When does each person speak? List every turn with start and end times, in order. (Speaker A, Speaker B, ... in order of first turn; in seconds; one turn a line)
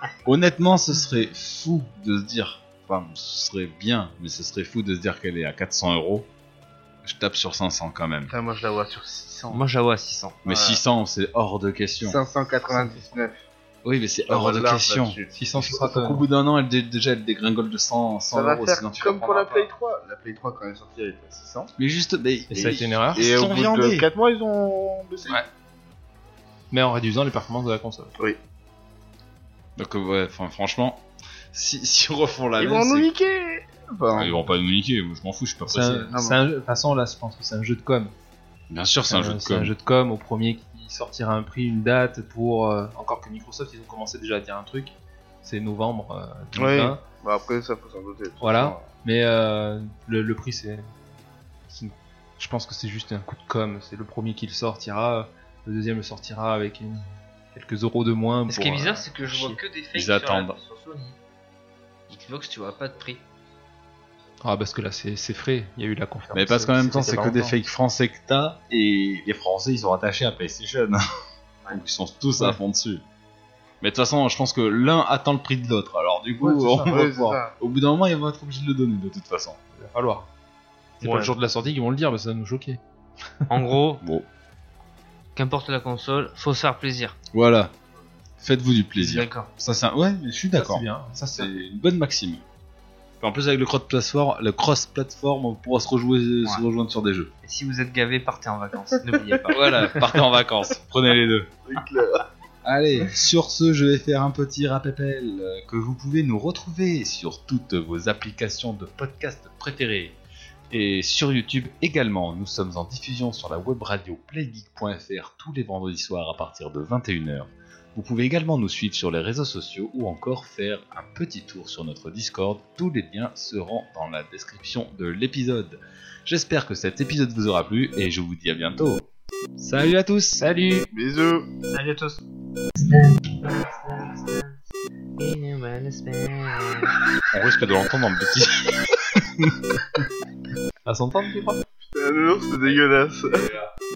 Speaker A: 0.2-6.3
Speaker A: 7.0-8.3
Speaker B: 8.3-9.6
Speaker C: 9.5-10.4
Speaker B: 10.4-10.8
Speaker A: 10.4-12.2
Speaker B: 12.0-13.4
Speaker A: 13.8-19.7
Speaker B: 14.3-15.3
Speaker D: 15.3-16.2
Speaker B: 18.3-21.7
Speaker A: 21.8-24.1
Speaker D: 22.5-23.2
Speaker B: 22.5-25.4
Speaker D: 26.7-28.1
Speaker A: 29.8-33.1
Speaker B: 32.6-34.4
Speaker A: 34.1-36.1
Speaker D: 35.7-38.1
Speaker B: 36.1-36.4
Speaker A: 38.7-39.7
Speaker D: 39.1-47.0
Speaker B: 46.5-48.9
Speaker D: 48.4-50.9
Speaker D: 51.7-59.6
Speaker C: 58.5-61.2
Speaker A: 59.9-60.6
Speaker C: 62.1-63.2
Speaker D: 64.4-67.5
Speaker A: 66.3-71.0
Speaker A: 71.7-73.0
Speaker A: 73.8-79.6
Speaker D: 76.4-77.0
Speaker B: 76.9-77.5
Speaker D: 79.8-80.3
Speaker D: 81.0-82.8
Speaker C: 81.0-81.3
Speaker C: 83.5-84.0
Speaker C: 85.3-87.2
Speaker A: 87.3-87.7
Speaker A: 88.4-92.4
Speaker C: 89.0-89.5
Speaker D: 90.5-91.5
Speaker A: 93.2-97.3
Speaker C: 97.4-100.1
Speaker A: 99.5-101.5
Speaker B: 101.7-102.2
Speaker A: 102.6-110.2
Speaker A: 110.7-129.0
Speaker A: 129.6-130.4
Speaker D: 130.3-130.9
Speaker B: 130.9-131.5
Speaker C: 131.7-132.2
Speaker C: 132.8-134.6
Speaker C: 135.2-136.9
Speaker A: 137.3-139.5
Speaker D: 140.8-141.6
Speaker B: 141.8-143.5
Speaker A: 143.3-143.6